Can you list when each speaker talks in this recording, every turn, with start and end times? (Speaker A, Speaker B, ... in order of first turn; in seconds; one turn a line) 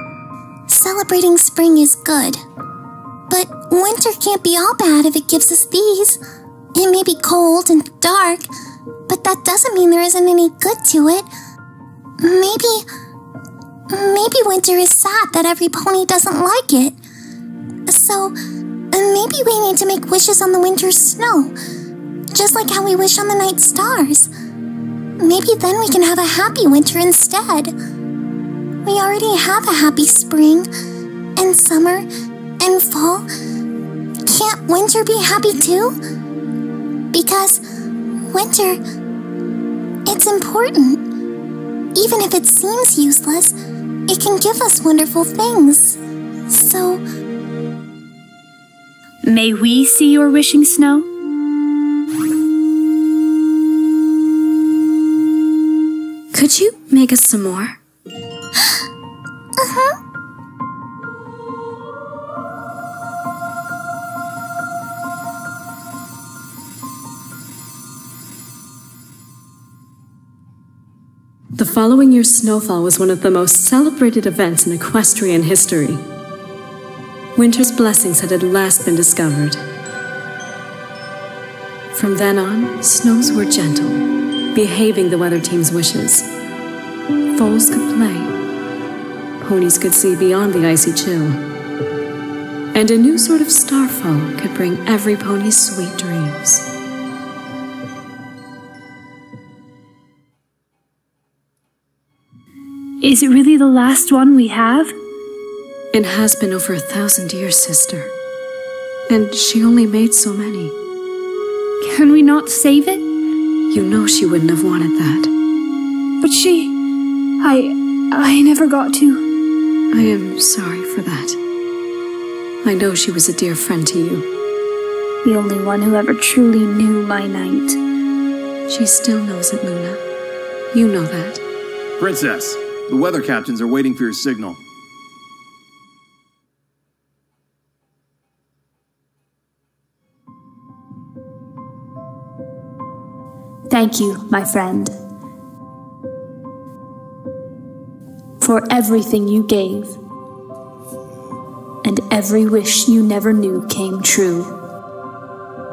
Speaker A: 0.7-2.4
Speaker A: 3.3-6.2
Speaker A: 6.7-8.5
Speaker A: 9.1-11.3
Speaker A: 12.2-12.8
Speaker A: 13.9-16.9
Speaker A: 17.9-18.3
Speaker A: 18.9-21.5
Speaker A: 22.3-24.3
Speaker A: 25.2-27.7
Speaker A: 28.8-30.7
Speaker A: 31.4-32.1
Speaker A: 32.6-33.3
Speaker A: 34.2-35.9
Speaker A: 37.1-37.6
Speaker A: 38.3-38.8
Speaker A: 40.1-41.0
Speaker A: 41.9-43.5
Speaker A: 44.1-47.0
Speaker B: 49.2-51.0
Speaker C: 56.3-57.8
Speaker A: 59.6-59.9
Speaker C: 71.5-76.0
Speaker C: 77.3-79.6
Speaker C: 81.9-86.3
Speaker C: 87.3-88.3
Speaker C: 89.4-91.4
Speaker C: 92.7-96.6
Speaker B: 103.0-104.9
Speaker C: 105.9-108.1
Speaker C: 109.1-110.7
Speaker B: 111.8-113.0
Speaker C: 113.7-115.3
Speaker B: 116.2-116.7
Speaker B: 117.4-119.2
Speaker C: 119.9-121.4
Speaker C: 122.6-124.3
Speaker B: 125.2-127.8
Speaker C: 128.7-130.0
Speaker C: 130.7-131.4
Speaker D: 132.0-134.6
Speaker B: 143.7-144.9
Speaker B: 148.4-150.0
Speaker B: 151.8-154.5